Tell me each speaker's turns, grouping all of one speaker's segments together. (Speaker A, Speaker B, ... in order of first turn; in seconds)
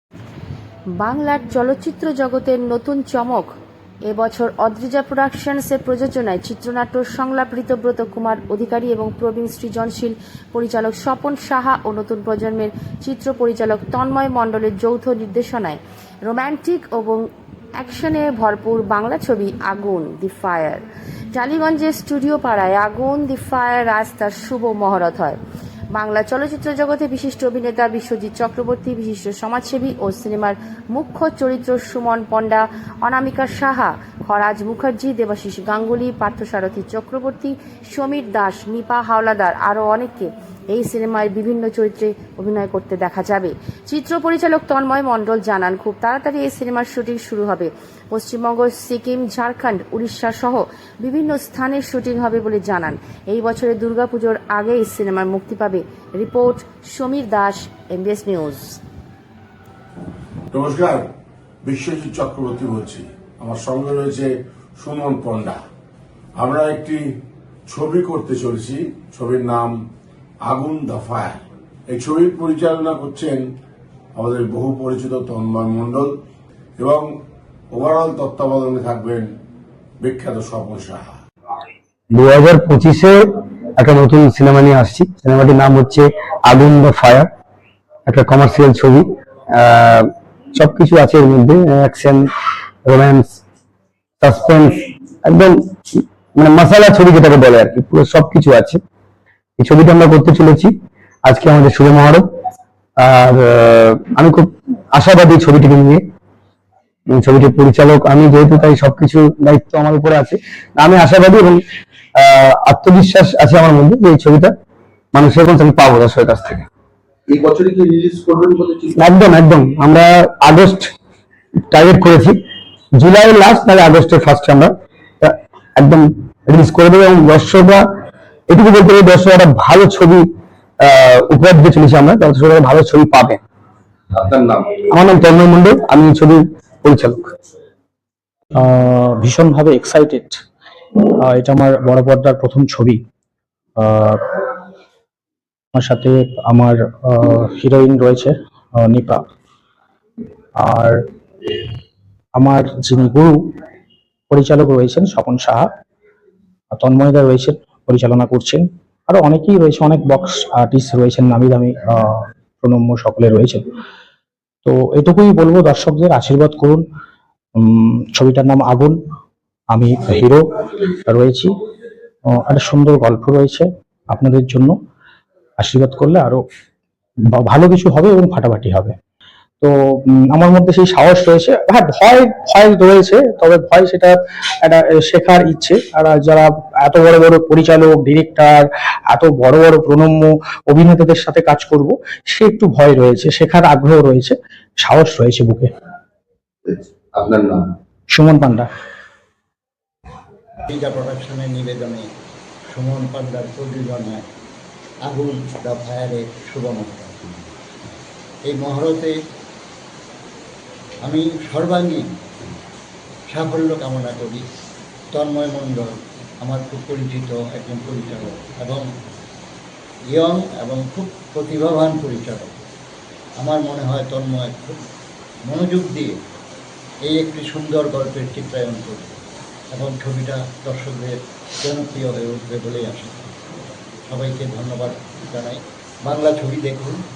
Speaker A: 1.0-3.5, 4.1-17.3, 17.8-25.4, 25.9-58.8
Speaker B: 60.5-61.1, 61.6-65.6, 66.4-67.0, 67.7-69.8, 70.4-73.5, 74.2-76.1, 76.8-77.1, 77.7-79.3, 80.0-81.1
Speaker C: 82.1-83.2, 83.8-87.3, 88.1-92.3, 92.9-93.4, 94.2-98.8, 99.6-100.7, 101.2-102.3, 103.0-106.0, 107.1-111.6, 112.2-114.5, 115.1-116.7, 119.0-120.9, 121.7-122.4, 123.0-127.8, 128.5-130.3, 130.8-133.4, 134.9-137.2
Speaker D: 117.3-119.2, 134.1-134.8, 196.7-197.6
Speaker E: 138.6-140.4, 141.2-143.0, 143.8-144.3, 145.7-149.2, 150.6-151.0, 152.4-153.5, 154.3-155.7, 156.8-163.7, 164.7-166.8, 167.6-169.0, 169.7-171.5, 172.3-174.7, 175.6-176.4, 177.3-178.9, 179.6-195.7, 198.1-198.7
Speaker F: 200.7-202.0, 202.7-204.2, 205.1-207.5, 208.4-209.1, 211.0-212.1, 213.3-214.4, 215.1-215.9, 216.4-218.8, 220.1-222.6, 223.4-224.8, 225.5-226.2, 227.1-229.2, 229.7-233.4, 234.1-237.0